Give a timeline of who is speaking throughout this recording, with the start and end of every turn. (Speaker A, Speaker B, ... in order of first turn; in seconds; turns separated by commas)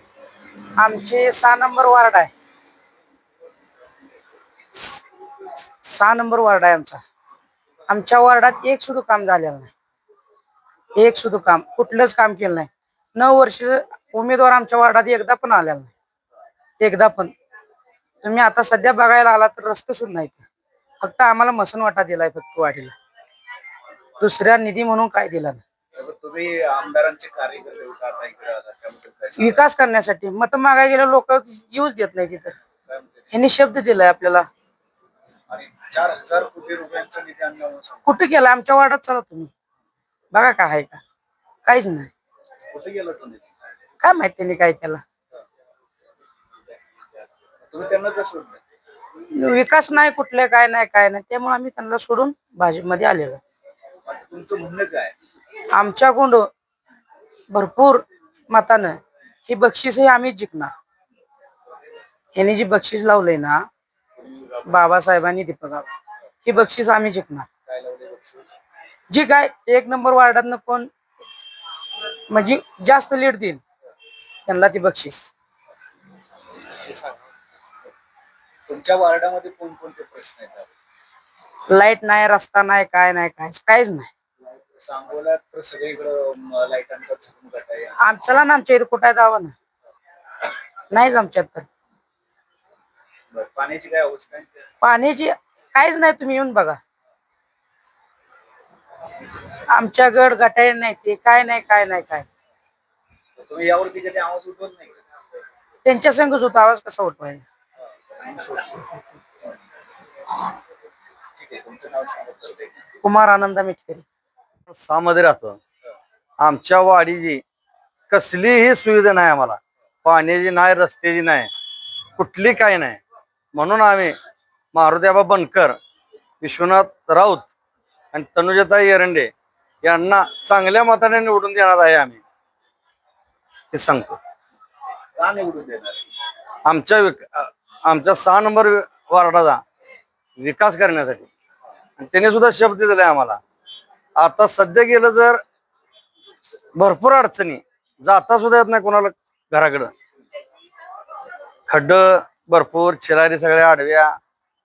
Speaker A: 0.8-2.3, Speaker A: 4.8-5.0, Speaker A: 5.8-7.0, Speaker A: 7.9-9.7, Speaker A: 11.0-15.9, Speaker A: 16.8-17.3, Speaker A: 18.2-20.4, Speaker A: 21.0-23.0, Speaker A: 24.2-25.6, Speaker B: 25.9-29.6, Speaker A: 29.4-32.5, Speaker B: 32.9-33.3, Speaker A: 33.3-34.5, Speaker B: 35.5-38.1, Speaker A: 38.1-39.5, Speaker A: 40.3-41.0, Speaker A: 41.6-42.1, Speaker B: 42.7-43.4, Speaker A: 44.0-45.0, Speaker B: 47.7-48.6, Speaker A: 49.3-53.4, Speaker B: 54.1-55.1, Speaker A: 55.7-56.5, Speaker A: 57.5-60.7, Speaker A: 62.4-63.6, Speaker B: 64.2-64.6, Speaker A: 64.7-65.9, Speaker A: 66.5-67.5, Speaker B: 67.7-68.6, Speaker A: 69.1-70.9, Speaker A: 72.3-73.6, Speaker A: 74.5-75.3, Speaker B: 76.8-77.2, Speaker B: 78.7-80.7, Speaker A: 81.7-84.1, Speaker B: 84.8-88.0, Speaker A: 88.0-89.5, Speaker A: 90.9-91.7, Speaker B: 93.3-94.5, Speaker A: 94.8-96.8, Speaker A: 99.7-102.3, Speaker B: 103.4-105.0, Speaker A: 105.8-107.4, Speaker B: 108.1-108.9, Speaker B: 111.3-112.8, Speaker A: 113.0-114.0, Speaker C: 114.7-115.6, Speaker C: 116.4-117.4, Speaker C: 118.1-121.5, Speaker C: 122.2-123.0, Speaker C: 123.6-124.2, Speaker C: 124.7-125.8, Speaker C: 126.4-127.5, Speaker C: 128.1-129.3, Speaker C: 129.9-132.2, Speaker C: 133.7-134.2, Speaker B: 135.2-136.0, Speaker C: 136.7-139.6, Speaker C: 140.4-141.3, Speaker C: 142.0-143.4, Speaker C: 144.2-145.4, Speaker C: 146.8-149.9, Speaker C: 151.7-154.1